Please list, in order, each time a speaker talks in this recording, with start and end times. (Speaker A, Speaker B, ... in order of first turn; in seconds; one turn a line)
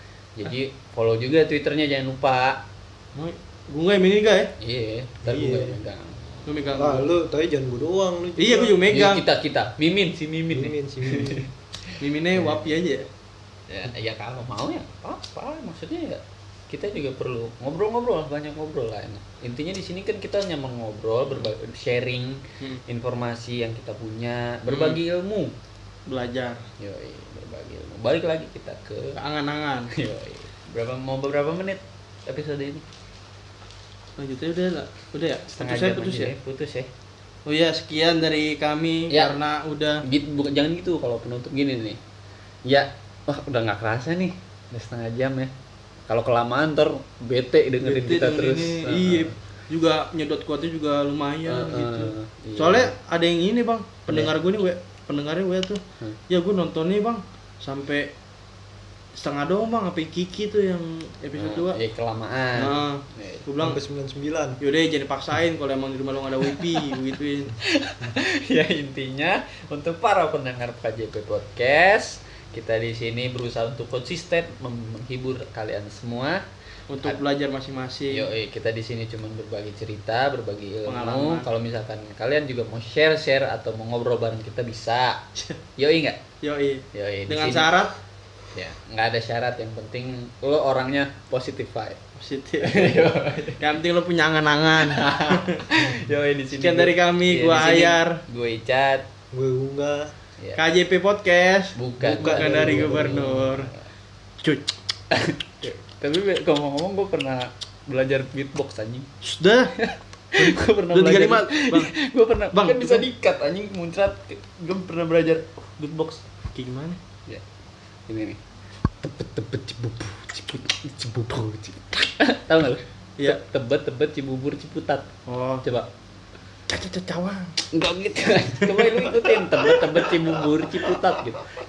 Speaker A: 0.4-2.6
Speaker B: 3.1-4.5
Speaker A: 4.6-6.2
Speaker C: 5.2-5.8
Speaker B: 6.5-7.1
Speaker C: 6.8-8.8
Speaker B: 8.4-9.2
Speaker A: 8.9-12.8
Speaker C: 10.5-11.5
Speaker B: 12.0-13.1
Speaker A: 13.7-25.5
Speaker B: 24.7-25.0
Speaker B: 26.1-26.6
Speaker A: 26.8-29.2
Speaker B: 29.2-29.9
Speaker A: 29.9-32.9
Speaker B: 34.2-36.3
Speaker A: 35.5-36.9
Speaker B: 37.5-40.0
Speaker A: 39.1-39.4
Speaker A: 40.0-42.0
Speaker A: 42.6-45.5
Speaker A: 46.1-49.4
Speaker B: 47.8-58.1
Speaker A: 51.5-52.9
Speaker B: 59.2-61.8
Speaker A: 61.4-63.5
Speaker B: 62.6-63.8
Speaker C: 63.6-64.6
Speaker B: 64.6-67.5
Speaker A: 66.4-66.8
Speaker A: 67.6-76.4
Speaker B: 76.9-78.3
Speaker A: 78.1-85.2
Speaker B: 80.9-81.5
Speaker A: 85.8-86.2
Speaker B: 86.4-88.0
Speaker A: 86.9-87.8
Speaker A: 88.5-92.0
Speaker B: 92.2-95.7
Speaker A: 92.6-93.6
Speaker A: 94.8-99.1
Speaker B: 96.5-98.2
Speaker C: 99.3-100.1
Speaker B: 100.6-103.7
Speaker A: 101.8-103.9
Speaker C: 102.0-103.3
Speaker B: 104.4-104.7
Speaker A: 105.1-109.1
Speaker B: 109.2-109.8
Speaker A: 109.8-116.2
Speaker B: 110.3-111.9
Speaker B: 112.5-113.1
Speaker B: 116.5-117.0
Speaker A: 118.1-118.4
Speaker A: 119.0-125.1
Speaker B: 125.3-125.7
Speaker A: 125.6-125.9
Speaker B: 126.7-127.6
Speaker A: 127.7-131.5
Speaker B: 128.5-130.5